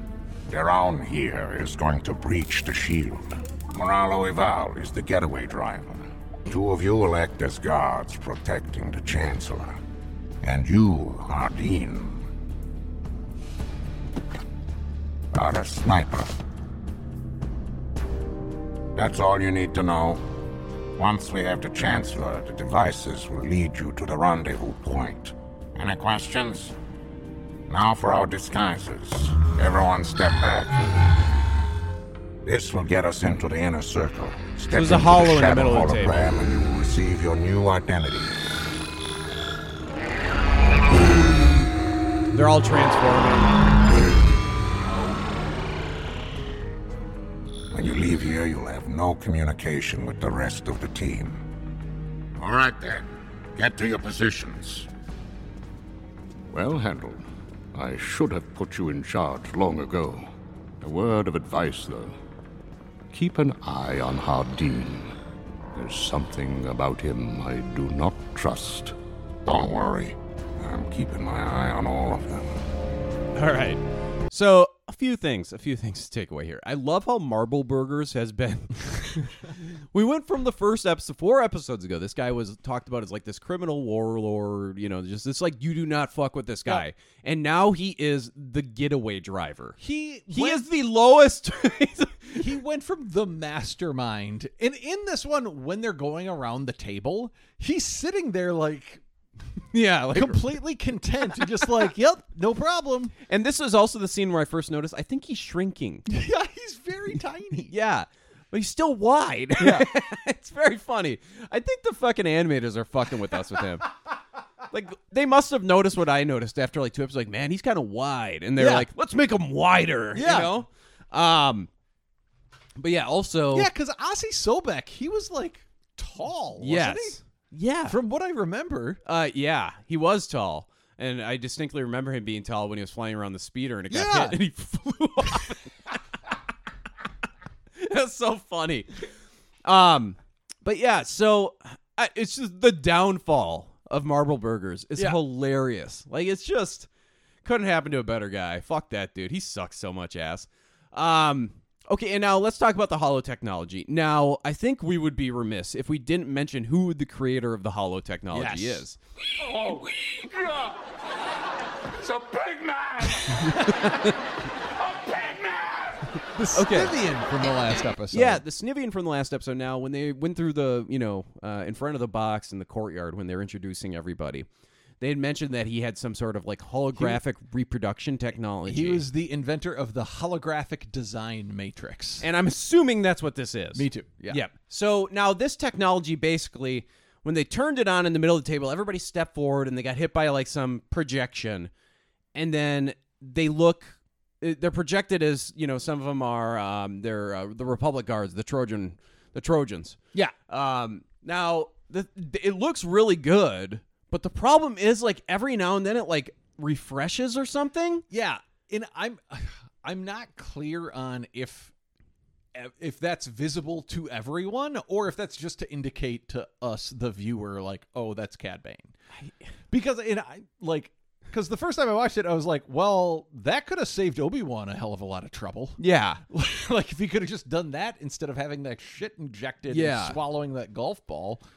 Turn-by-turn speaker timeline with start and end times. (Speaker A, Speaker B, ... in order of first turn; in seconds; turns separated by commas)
Speaker A: 0.5-9.8, Speaker A: 10.4-12.3, Speaker A: 15.3-16.4, Speaker A: 18.9-20.2, Speaker A: 21.0-26.8, Speaker A: 27.7-30.9, Speaker A: 32.5-38.4, Speaker B: 34.7-36.3, Speaker B: 42.3-43.6, Speaker A: 47.7-51.4, Speaker A: 52.4-54.9, Speaker C: 56.5-62.2, Speaker C: 63.1-65.2, Speaker C: 65.7-69.0, Speaker A: 69.5-72.6, Speaker B: 73.3-89.8, Speaker D: 89.8-90.7, Speaker B: 90.3-92.5, Speaker D: 92.3-99.0, Speaker B: 99.7-100.6, Speaker D: 100.1-103.1, Speaker B: 103.3-106.1, Speaker D: 106.1-107.7, Speaker B: 107.7-113.9, Speaker D: 109.6-109.9, Speaker B: 114.7-121.7, Speaker D: 118.6-118.9, Speaker D: 120.1-120.6, Speaker B: 122.8-123.7, Speaker D: 123.5-127.2, Speaker B: 126.6-128.0, Speaker D: 127.9-129.0, Speaker B: 129.1-136.0, Speaker D: 133.9-134.4, Speaker B: 137.8-139.0, Speaker B: 139.7-146.9, Speaker B: 147.4-159.0, Speaker D: 158.3-158.8, Speaker E: 159.4-160.9, Speaker E: 162.0-163.5, Speaker D: 163.5-163.9, Speaker B: 163.6-164.2, Speaker E: 164.7-166.1, Speaker D: 166.3-168.4, Speaker B: 166.5-167.0, Speaker B: 168.1-174.5, Speaker B: 175.0-179.1, Speaker D: 178.7-182.3, Speaker B: 182.2-191.7, Speaker D: 183.8-184.4, Speaker B: 192.3-208.1, Speaker D: 208.1-211.7, Speaker D: 212.6-218.9, Speaker D: 219.7-231.4, Speaker B: 225.8-226.2, Speaker B: 229.7-230.2